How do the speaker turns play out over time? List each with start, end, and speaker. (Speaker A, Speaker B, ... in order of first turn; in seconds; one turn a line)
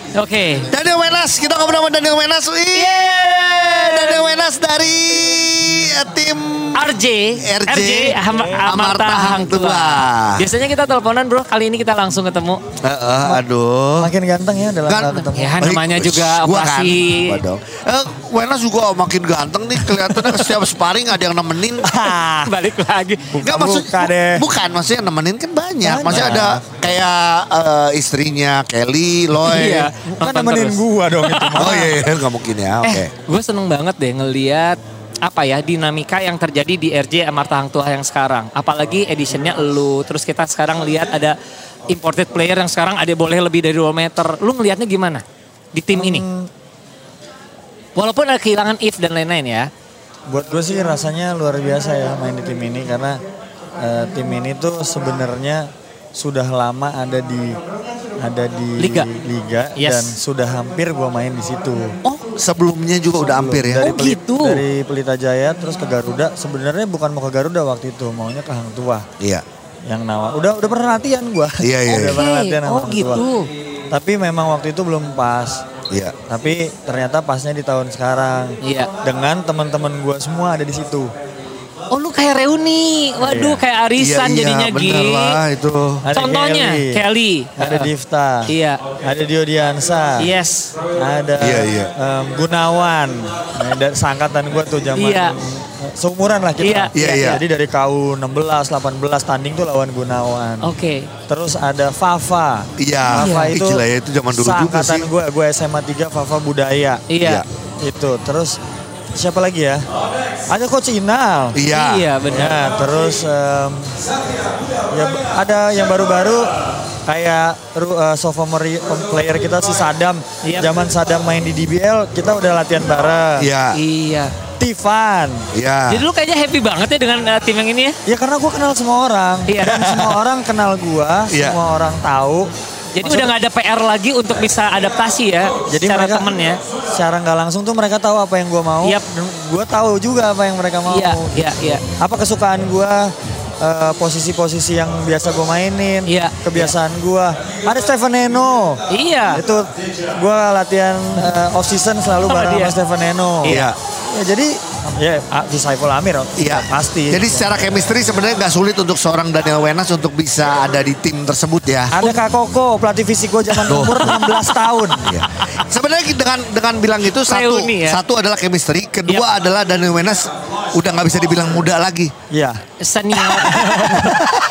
Speaker A: 0.1-0.7
Speaker B: 0.7-10.5
Speaker A: 2.7-4.2
Speaker A: 6.7-12.6
Speaker B: 12.8-14.1
Speaker C: 14.0-15.6
Speaker B: 14.9-22.0
Speaker A: 15.3-17.4
Speaker C: 22.0-22.5
Speaker A: 22.4-23.4
Speaker C: 23.3-24.4
Speaker B: 23.4-29.9
Speaker C: 25.8-26.6
Speaker A: 26.1-26.5
Speaker A: 29.4-31.8
Speaker C: 30.0-31.9
Speaker B: 31.6-33.1
Speaker A: 32.8-41.4
Speaker A: 41.9-46.2
Speaker C: 45.9-46.5
Speaker A: 48.0-49.7
Speaker C: 50.3-53.2
Speaker C: 53.8-57.6
Speaker C: 58.2-61.9
Speaker A: 58.8-59.1
Speaker A: 59.8-60.1
Speaker A: 62.0-62.3
Speaker B: 62.4-64.0
Speaker C: 63.2-69.0
Speaker A: 63.8-64.6
Speaker B: 69.2-69.4
Speaker C: 69.9-73.2
Speaker B: 71.6-72.2
Speaker A: 72.1-73.5
Speaker C: 73.9-75.6
Speaker B: 75.9-76.2
Speaker C: 76.3-81.1
Speaker A: 78.6-78.9
Speaker A: 81.9-85.4
Speaker C: 83.2-83.6
Speaker B: 84.0-86.0
Speaker C: 86.0-87.0
Speaker A: 86.1-87.9
Speaker C: 87.6-90.3
Speaker A: 88.5-88.8
Speaker A: 90.2-90.7
Speaker C: 90.9-100.7
Speaker B: 91.4-91.9
Speaker A: 95.0-95.4
Speaker A: 96.6-97.4
Speaker B: 96.9-97.4
Speaker A: 100.6-101.1
Speaker C: 101.3-107.0
Speaker B: 102.8-105.1
Speaker A: 103.1-103.5
Speaker A: 107.1-107.4
Speaker C: 107.8-108.6
Speaker C: 109.1-109.8
Speaker C: 110.5-111.6
Speaker B: 111.5-112.1
Speaker A: 111.7-112.6
Speaker C: 112.3-114.0
Speaker C: 114.9-116.5
Speaker C: 117.1-123.5
Speaker A: 120.4-120.7
Speaker B: 123.4-123.8
Speaker A: 123.7-124.3
Speaker C: 124.6-125.5
Speaker B: 125.5-126.0
Speaker A: 125.9-128.0
Speaker C: 128.1-132.5
Speaker A: 129.5-129.9
Speaker B: 131.3-131.6
Speaker A: 132.9-136.6
Speaker C: 133.0-133.3
Speaker C: 135.7-136.3
Speaker C: 136.9-157.5
Speaker A: 140.9-141.8
Speaker A: 146.1-146.7
Speaker A: 148.9-149.4
Speaker A: 152.3-152.8
Speaker A: 153.4-153.7
Speaker B: 153.4-153.8
Speaker B: 156.4-161.9
Speaker C: 161.9-165.2
Speaker B: 163.7-164.4
Speaker B: 165.1-172.1
Speaker A: 167.3-168.0
Speaker C: 172.3-172.6
Speaker A: 172.8-174.1
Speaker C: 173.3-174.2
Speaker B: 174.0-174.4